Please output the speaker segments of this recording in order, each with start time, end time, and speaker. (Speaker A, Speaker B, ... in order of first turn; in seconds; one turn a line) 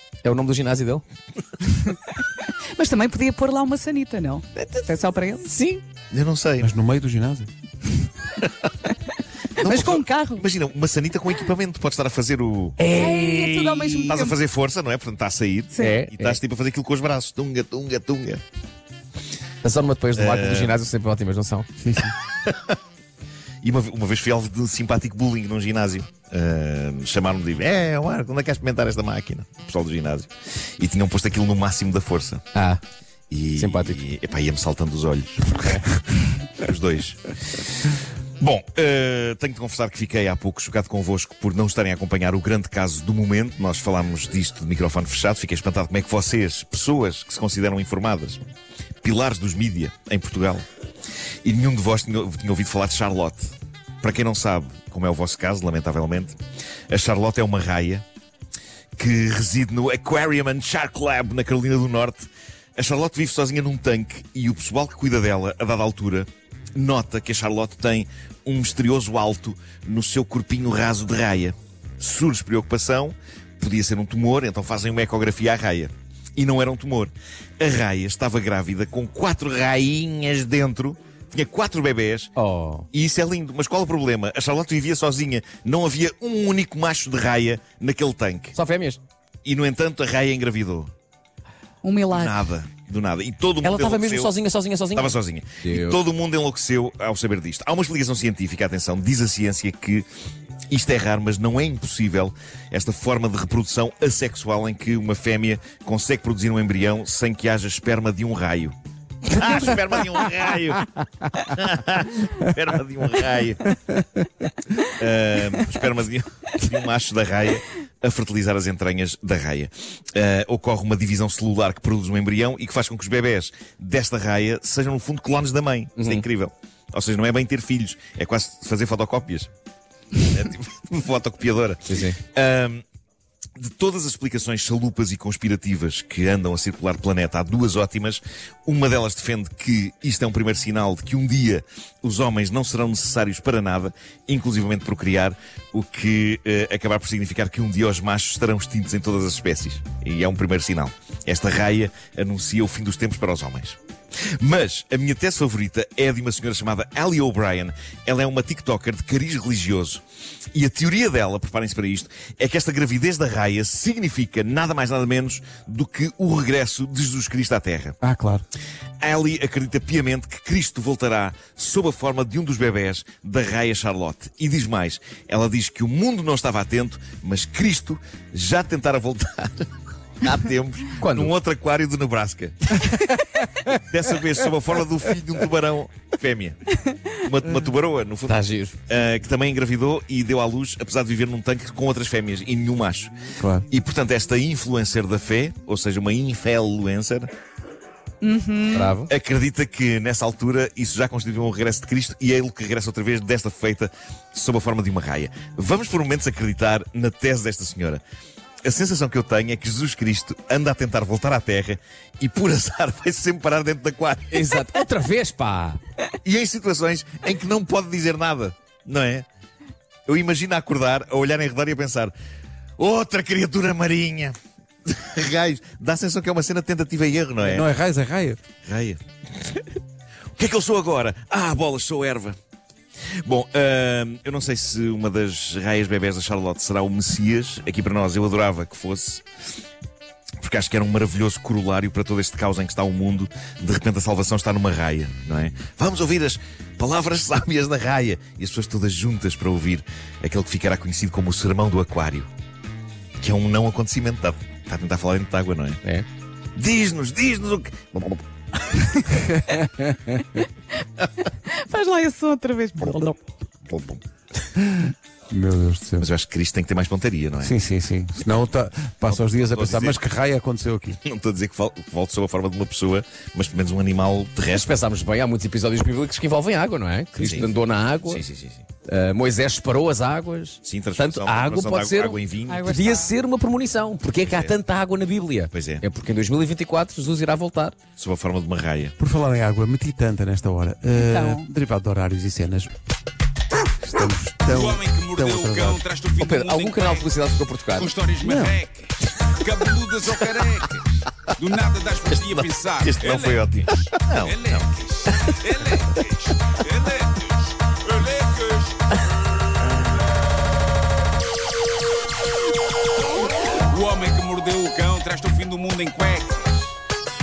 Speaker A: 0.2-1.0
Speaker B: 1.7-5.4
Speaker A: 5.5-5.8
Speaker C: 6.1-6.7
Speaker D: 6.6-7.5
Speaker C: 8.4-8.7
Speaker C: 9.6-12.8
Speaker B: 9.6-10.4
Speaker A: 12.8-14.2
Speaker B: 12.9-14.4
Speaker C: 14.1-18.4
Speaker B: 15.7-16.0
Speaker A: 15.8-16.4
Speaker A: 19.6-21.7
Speaker C: 20.1-20.8
Speaker D: 21.8-22.1
Speaker C: 22.4-22.8
Speaker C: 23.6-32.4
Speaker A: 32.5-32.8
Speaker C: 33.3-35.6
Speaker A: 33.6-34.0
Speaker C: 36.6-48.4
Speaker C: 49.0-50.6
Speaker C: 51.5-53.5
Speaker C: 54.0-56.4
Speaker C: 56.9-58.0
Speaker C: 59.0-82.3
Speaker A: 82.4-82.9
Speaker C: 82.9-88.6
Speaker A: 88.5-89.0
Speaker C: 89.5-90.9
Speaker B: 91.8-92.5
Speaker C: 92.1-94.3
Speaker A: 93.6-96.0
Speaker C: 94.9-100.0
Speaker C: 100.7-113.7
Speaker C: 114.8-129.5
Speaker A: 126.0-126.2
Speaker C: 130.2-132.8
Speaker A: 131.9-132.2
Speaker C: 133.6-153.8
Speaker C: 154.4-160.0
Speaker C: 160.5-168.0
Speaker D: 168.0-168.4
Speaker C: 169.0-182.9
Speaker A: 181.0-181.3
Speaker C: 183.6-193.1
Speaker A: 188.3-188.8
Speaker D: 193.4-193.7
Speaker C: 193.7-197.3
Speaker B: 198.2-198.9
Speaker A: 198.7-199.1
Speaker C: 199.1-208.0
Speaker C: 208.6-214.8
Speaker A: 214.3-215.8
Speaker C: 216.2-219.3
Speaker C: 220.1-222.2
Speaker C: 222.8-224.4
Speaker C: 224.9-227.7
Speaker D: 227.4-228.4
Speaker C: 228.6-229.0
Speaker C: 230.4-232.4
Speaker C: 233.2-239.2
Speaker C: 240.4-252.3
Speaker C: 253.2-255.8
Speaker C: 256.6-258.2
Speaker B: 258.8-259.2
Speaker D: 259.2-259.6
Speaker A: 259.7-260.2
Speaker B: 261.5-263.2
Speaker C: 263.6-264.0
Speaker D: 264.7-266.1
Speaker C: 266.0-267.6
Speaker D: 267.4-271.0
Speaker C: 269.1-270.0
Speaker C: 271.0-274.7
Speaker A: 274.5-278.2
Speaker C: 277.2-277.5
Speaker C: 278.1-278.7
Speaker A: 278.8-287.8
Speaker C: 280.6-282.6
Speaker B: 282.5-283.1
Speaker C: 284.2-284.6
Speaker C: 285.5-285.9
Speaker C: 288.0-288.9
Speaker D: 289.0-292.7
Speaker B: 290.9-291.5
Speaker D: 293.8-295.8
Speaker E: 294.5-309.0
Speaker A: 296.2-297.9
Speaker D: 298.2-298.6
Speaker C: 302.8-305.8
Speaker C: 309.8-310.0
Speaker E: 313.7-316.8